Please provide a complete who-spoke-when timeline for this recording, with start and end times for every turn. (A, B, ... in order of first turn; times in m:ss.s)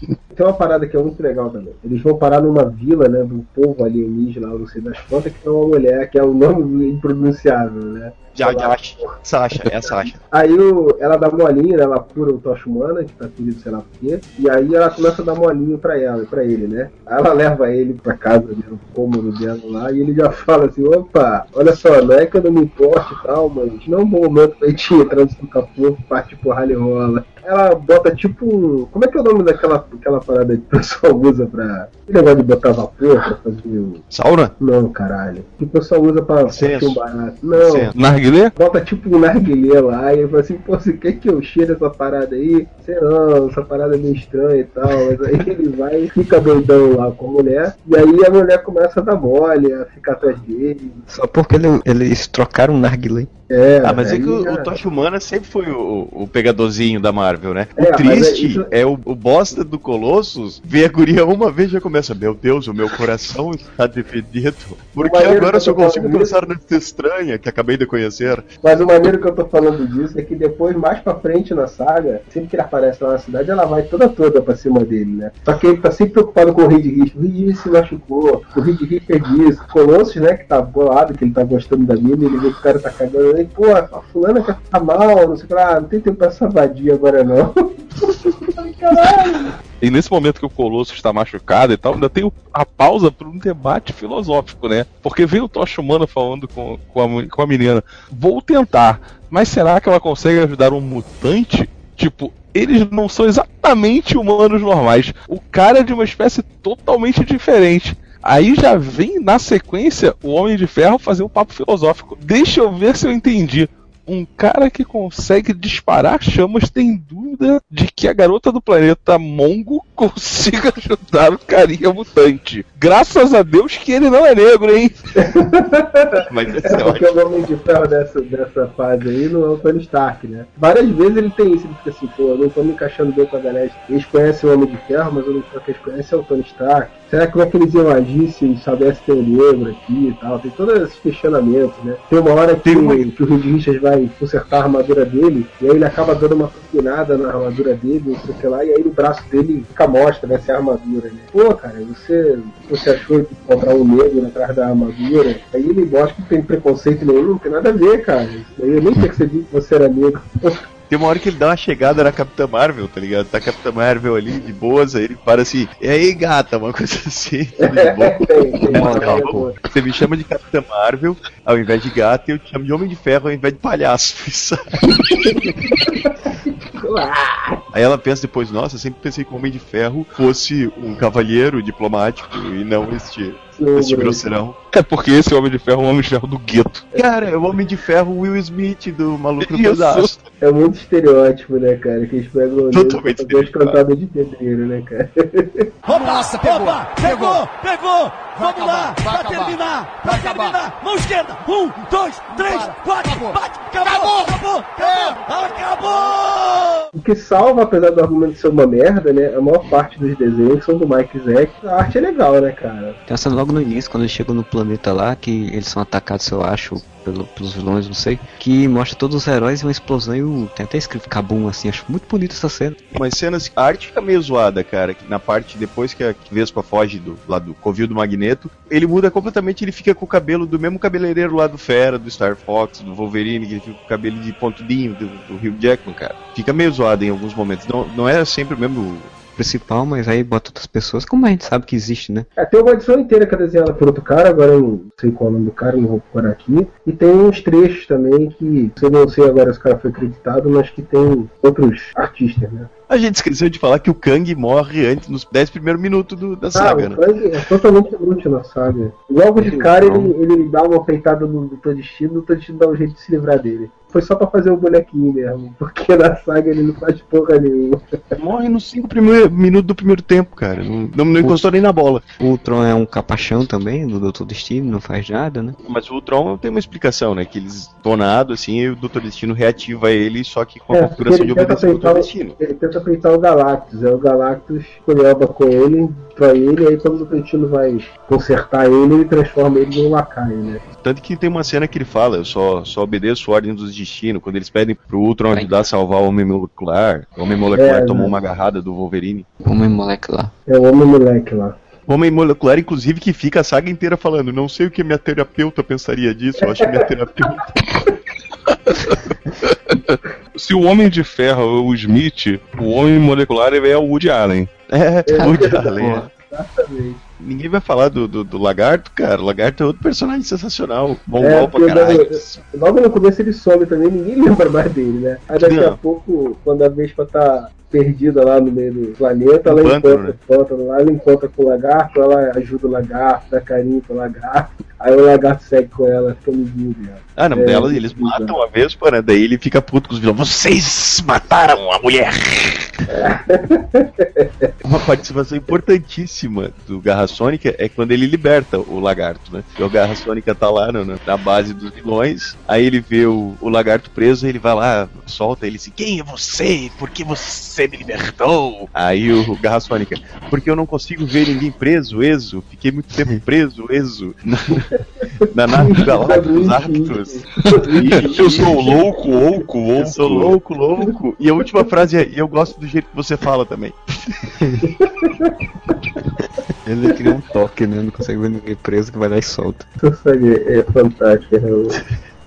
0:00.3-0:09.0 A
0:08.4-0:10.2 B
0:10.3-0:34.0 A
0:34.1-0:34.5 B
0:34.6-0:37.9 A
0:36.5-0:37.0 B
0:37.6-0:37.9 B
0:37.9-0:38.5 C
0:38.5-0:51.0 A
0:51.1-0:53.3 D
0:53.5-0:54.7 A
0:53.8-1:08.4 B
0:57.8-0:58.7 A
1:05.0-1:06.4 A
1:08.6-1:29.5 A
1:29.8-2:05.0 C
2:05.2-2:40.6 A
2:06.3-2:07.0 B
2:22.7-2:22.9 C
2:40.9-2:55.2 B
2:47.7-2:49.5 A
2:48.7-2:49.4 D
2:54.8-2:57.6 A
2:57.7-3:04.6 B
3:03.5-3:04.2 A
3:04.7-3:06.8 C
3:06.9-3:10.1 B
3:09.4-3:10.2 C
3:10.4-3:15.7 A
3:12.7-3:13.8 B
3:15.8-3:26.5 E
3:26.9-3:33.0 A
3:33.1-3:42.8 D
3:42.9-3:59.1 B
3:59.4-4:02.3 D
4:02.4-4:12.7 A
4:12.9-4:17.0 B
4:16.5-4:27.8 A
4:19.4-4:20.1 D
4:28.2-4:32.0 B
4:32.2-4:35.6 D
4:35.6-4:42.4 B
4:40.7-4:50.6 A
4:50.8-4:59.2 B
4:55.3-4:55.6 D
4:57.5-4:58.2 A
4:59.4-5:00.3 D
5:00.5-5:01.6 A
5:01.9-5:07.4 B
5:08.7-5:14.5 C
5:14.7-5:16.1 B
5:15.1-5:17.0 A
5:15.1-5:16.1 D
5:17.2-5:22.4 B
5:21.2-5:38.3 A
5:25.4-5:25.8 B
5:29.4-5:30.1 B
5:37.2-5:42.7 B
5:42.9-5:44.5 A
5:44.6-6:04.7 B
6:05.3-6:07.2 B
6:05.6-6:08.8 A
6:07.8-6:08.4 B
6:07.8-6:10.3 C
6:09.8-6:14.2 B
6:14.4-6:14.7 D
6:14.8-6:15.7 A
6:16.6-6:19.6 D
6:19.8-6:21.8 A